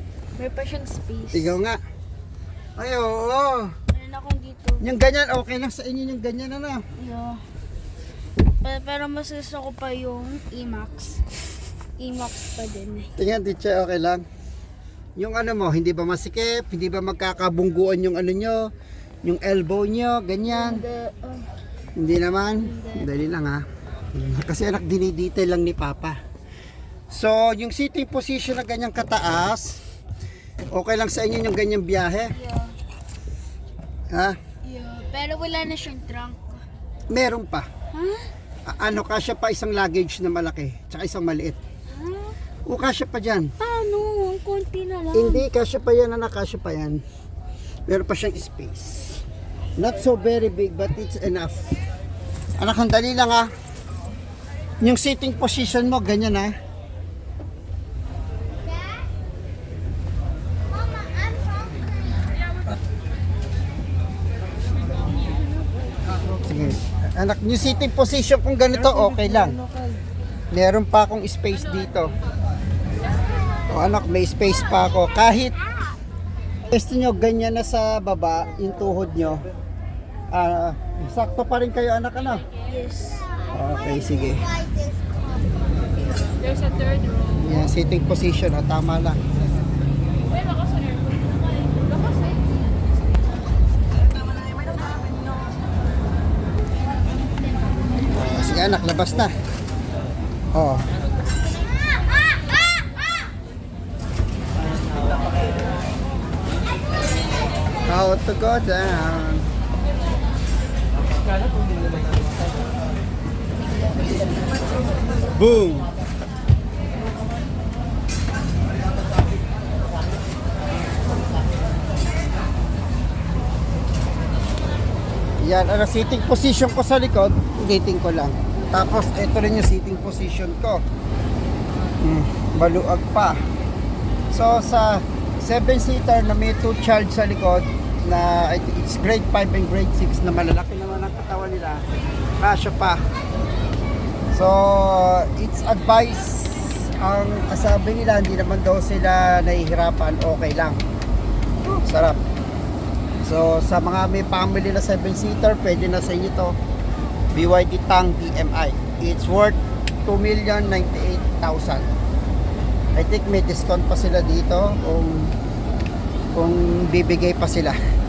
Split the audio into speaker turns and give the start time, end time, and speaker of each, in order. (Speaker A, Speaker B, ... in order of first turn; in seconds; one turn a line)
Speaker A: 0.4-1.6
Speaker B: 1.3-1.8
Speaker B: 2.8-3.7
Speaker A: 3.9-4.9
Speaker B: 4.8-6.8
Speaker A: 7.0-7.4
Speaker A: 8.6-11.2
Speaker A: 12.0-13.1
Speaker B: 13.2-14.2
Speaker B: 15.2-18.7
Speaker B: 19.2-20.8
Speaker A: 20.5-21.5
Speaker B: 22.0-26.2
Speaker A: 22.5-23.1
Speaker B: 27.1-29.8
Speaker B: 30.7-32.3
Speaker A: 32.3-32.8
Speaker B: 34.1-34.4
Speaker A: 34.6-36.6
Speaker B: 37.1-37.7
Speaker A: 37.9-38.3
Speaker B: 38.7-41.6
Speaker A: 41.9-42.4
Speaker B: 42.7-43.5
Speaker A: 43.6-45.5
Speaker B: 45.1-47.0
Speaker B: 47.9-49.2
Speaker B: 49.8-51.7
Speaker B: 52.6-53.5
Speaker B: 54.8-56.5
Speaker B: 66.4-69.6
Speaker A: 68.8-70.0
Speaker B: 70.5-72.1
Speaker B: 73.7-75.5
Speaker B: 76.7-79.4
Speaker B: 80.3-82.5
Speaker A: 82.7-83.3
Speaker B: 83.5-84.5
Speaker B: 87.4-89.2
Speaker A: 91.7-92.1
Speaker B: 98.2-99.3
Speaker B: 100.5-100.8
Speaker B: 107.9-109.5
Speaker B: 115.3-115.9
Speaker B: 125.4-130.8
Speaker B: 132.0-133.4
Speaker B: 134.3-141.8
Speaker B: 142.4-143.0
Speaker B: 144.3-150.8
Speaker B: 151.8-152.2
Speaker B: 153.2-156.6
Speaker B: 157.3-161.9
Speaker B: 162.9-165.3
Speaker B: 166.3-167.8